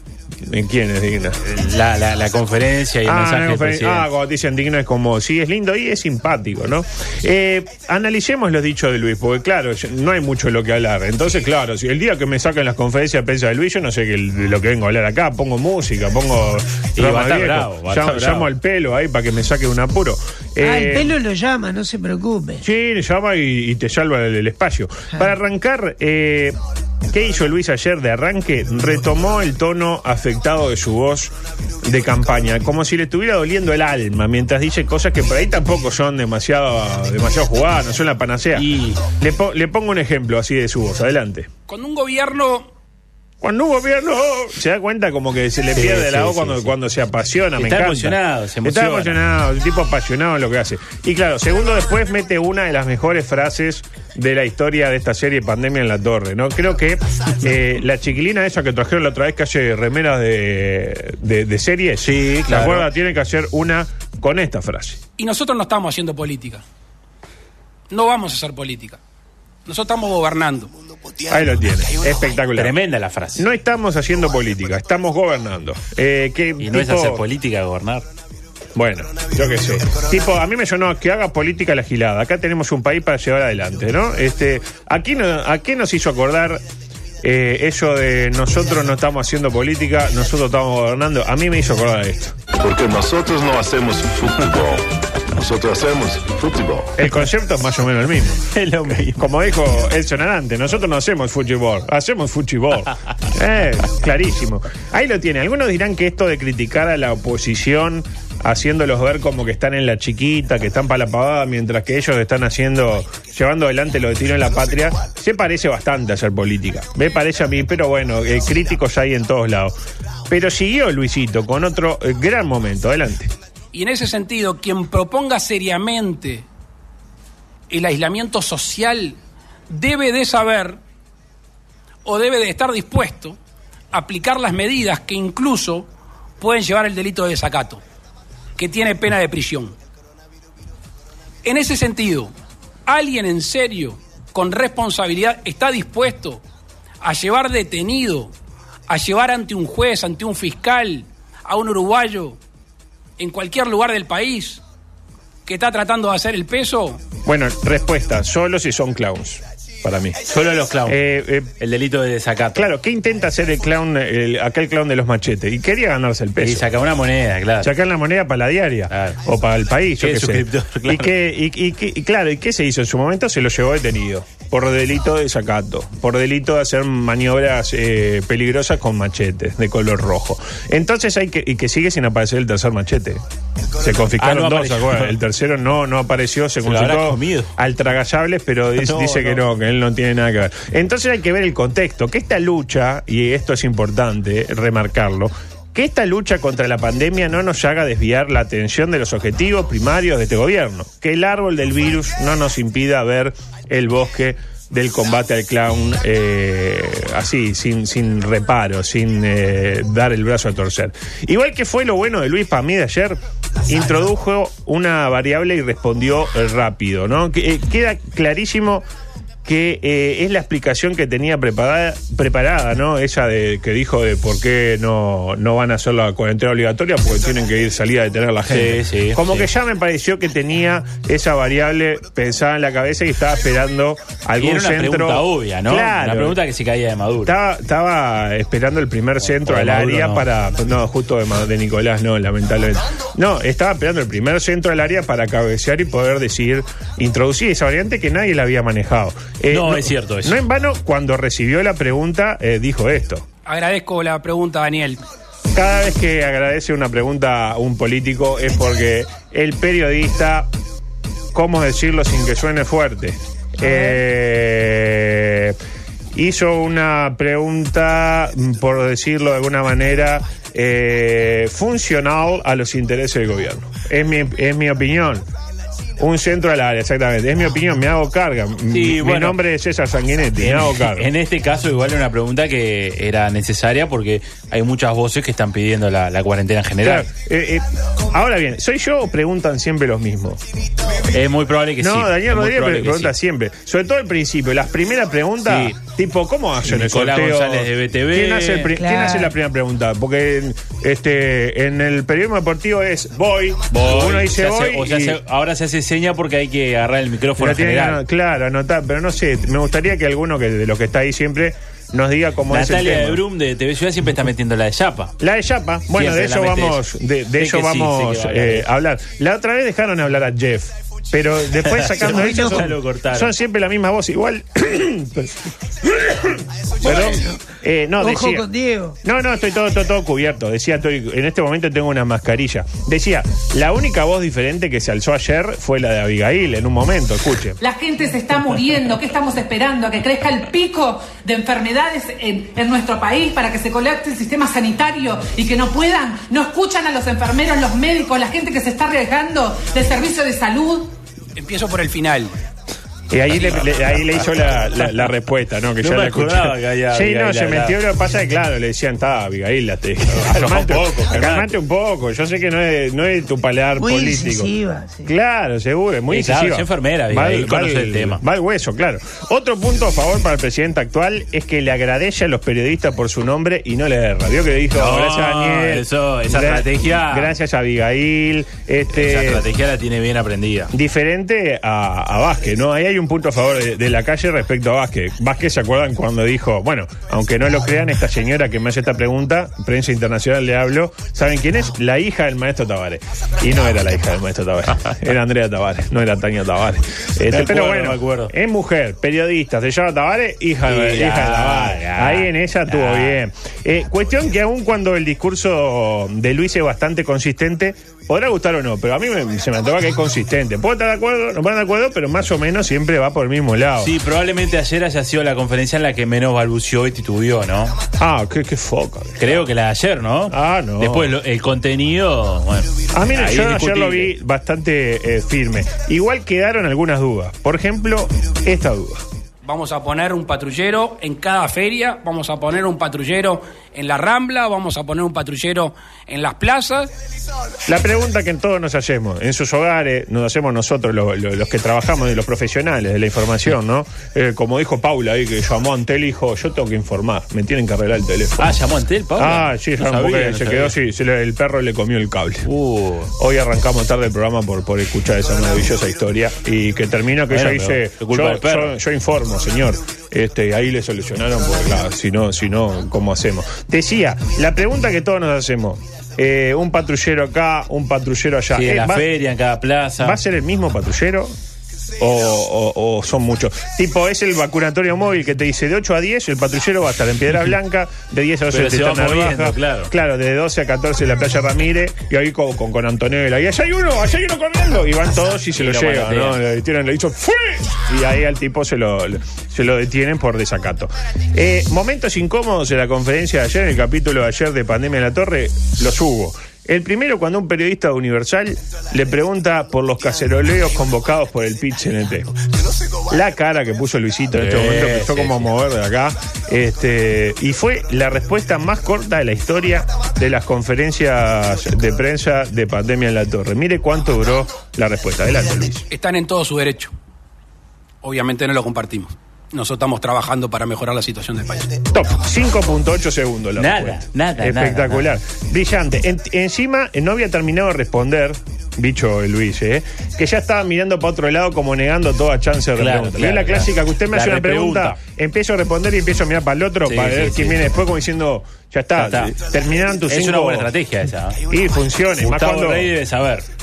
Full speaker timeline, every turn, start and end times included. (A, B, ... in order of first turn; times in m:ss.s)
0:00.4-0:01.4 A
0:01.4-0:04.1 B
0:03.0-0:21.1 A
0:17.0-0:18.5 B
0:20.6-0:22.6 C
0:22.6-0:41.5 A
0:38.5-0:39.0 B
0:41.7-0:42.7 D
0:43.4-1:05.0 A
0:45.7-0:46.7 B
0:47.6-0:49.2 B
1:02.0-1:02.9 B
1:05.2-1:06.6 D
1:07.9-1:09.0 D
1:09.6-1:10.7 D
1:11.3-1:12.7 A
1:12.5-1:13.4 B
1:13.4-1:17.2 A
1:16.6-1:18.0 B
1:18.7-1:26.6 A
1:27.2-1:32.4 A
1:32.6-1:37.0 E
1:37.0-1:38.5 A
1:38.5-1:39.2 B
1:39.1-1:59.7 A
2:00.3-2:03.3 A
2:03.7-2:06.4 D
2:07.7-2:09.2 D
2:09.7-2:10.8 D
2:12.0-2:13.4 D
2:13.9-2:15.9 D
2:16.4-2:17.8 D
2:18.6-2:19.7 D
2:21.4-2:22.3 D
2:22.8-2:26.4 D
2:27.0-2:28.3 D
2:28.9-2:32.4 D
2:33.2-2:34.6 D
2:35.4-2:37.0 D
2:37.2-2:40.3 A
2:40.2-2:41.0 B
2:40.8-2:41.5 A
2:41.6-2:42.6 B
2:42.5-2:46.7 A
2:46.4-2:47.7 B
2:47.6-3:03.2 A
2:48.9-2:49.2 B
2:50.0-2:51.1 B
3:03.7-3:38.8 A
3:04.2-3:05.2 B
3:06.6-3:07.5 B
3:08.8-3:09.4 B
3:39.4-3:56.4 A
3:48.5-3:49.5 B
3:54.4-3:57.3 B
3:57.2-4:13.2 A
3:59.4-4:00.2 B
4:09.5-4:10.4 B
4:13.4-4:15.0 D
4:15.5-4:20.5 A
4:21.3-4:25.6 A
4:23.6-4:24.0 C
4:26.1-4:35.2 A
4:36.0-4:41.1 A
4:38.7-4:39.4 B
4:40.4-4:47.1 B
4:46.8-4:50.4 A
4:51.1-4:53.1 B
4:51.8-5:05.2 A
4:55.4-4:55.8 B
4:56.6-4:58.7 B
4:58.7-4:59.3 C
5:03.7-5:08.0 B
5:07.4-5:13.2 A
5:12.5-5:15.1 B
5:15.2-5:28.4 A
5:15.9-5:16.8 B
5:17.4-5:18.7 B
5:21.6-5:23.3 B
5:22.1-5:22.7 C
5:26.8-5:29.0 C
5:29.0-5:37.6 A
5:37.6-5:50.9 F
5:51.4-5:52.3 D
5:53.1-6:04.5 A
5:55.8-5:57.8 B
6:00.1-6:01.5 B
6:03.8-6:05.1 C
6:05.0-6:19.4 A
6:06.1-6:08.2 B
6:14.7-6:17.3 B
6:18.9-6:20.7 B
6:20.7-6:53.9 A
6:37.3-6:38.3 B
6:40.6-6:43.2 B
6:53.8-6:57.8 B
6:58.0-6:59.4 A
6:59.2-7:04.1 B
7:00.3-7:01.1 A
7:02.9-7:09.0 A
7:09.4-7:16.9 D
7:17.6-7:28.5 A
7:28.4-7:30.7 B
7:29.2-7:32.5 A
7:32.4-7:33.1 B
7:33.2-7:49.1 A
7:37.3-7:38.7 B
7:48.5-7:50.2 B
7:50.0-7:51.3 A
7:52.0-8:22.3 A
7:58.5-7:59.9 B
8:05.6-8:06.4 B
8:23.1-8:35.8 A
8:24.3-8:25.5 B
8:35.9-8:36.9 D
8:38.0-8:41.8 D
8:41.9-9:00.7 A
8:43.6-8:45.0 B
8:52.8-8:55.0 B
8:56.8-8:57.6 B
8:59.0-8:59.4 B
9:00.0-9:01.4 B
9:01.4-9:02.9 A
9:02.2-9:03.4 B